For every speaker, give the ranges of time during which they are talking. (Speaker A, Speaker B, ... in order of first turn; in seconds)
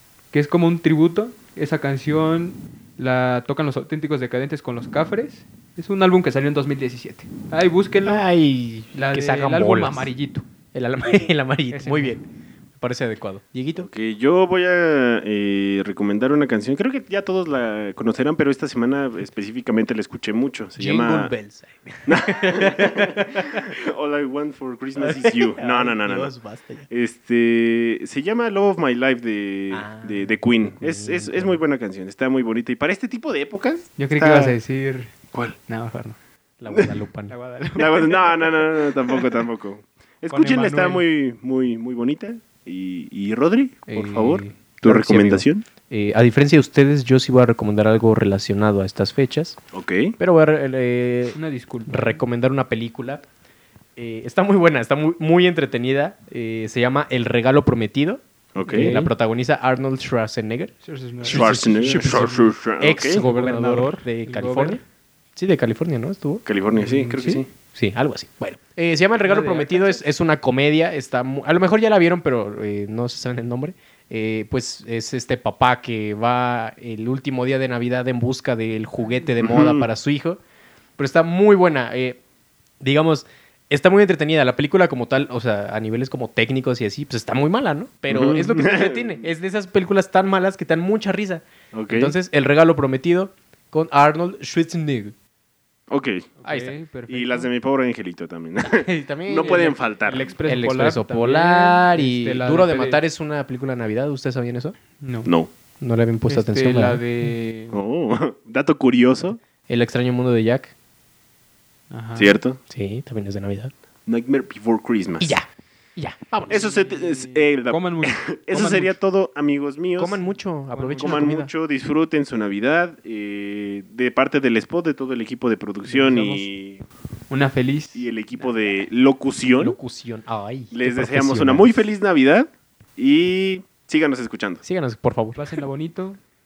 Speaker A: 0.3-8.2, 8.9-10.4, 11.7-12.2, 34.0-35.1, 35.7-36.2, 37.3-39.2, 40.3-41.0, 51.4-52.2, 58.7-59.1, 60.8-62.4, 63.1-64.8, 66.7-67.4, 69.2-70.0, 96.4-97.5, 99.4-103.0, 105.0-105.3, 106.3-107.8, 111.9-112.4, 116.5-119.0, 120.7-121.3, 127.3-128.1, 135.4-136.2
Speaker B: 8.0-10.1, 10.7-12.3, 12.8-13.9, 20.8-23.7, 25.0-26.9, 29.7-31.6, 36.6-37.3, 43.9-49.6, 50.2-53.2, 54.0-64.8, 65.4-66.4, 67.7-80.4, 81.0-82.2, 82.8-95.1, 96.4-96.7, 98.6-99.8, 100.4-104.8, 105.8-107.3, 109.7-110.7, 112.7-113.7, 115.2-116.8, 120.0-121.5, 125.9-126.5, 129.6-131.8, 134.6-135.4
Speaker C: 13.8-21.3, 22.1-26.3, 26.9-34.6, 37.8-45.6, 49.7-50.1, 58.5-58.9, 61.3-63.2, 66.5-67.5, 79.4-79.9, 88.1-89.2, 91.7-92.2, 95.9-96.3, 97.1-100.3, 107.7-109.4, 112.2-112.6, 114.1-115.3, 116.5-120.2, 121.0-126.8, 128.0-129.8, 130.7-134.6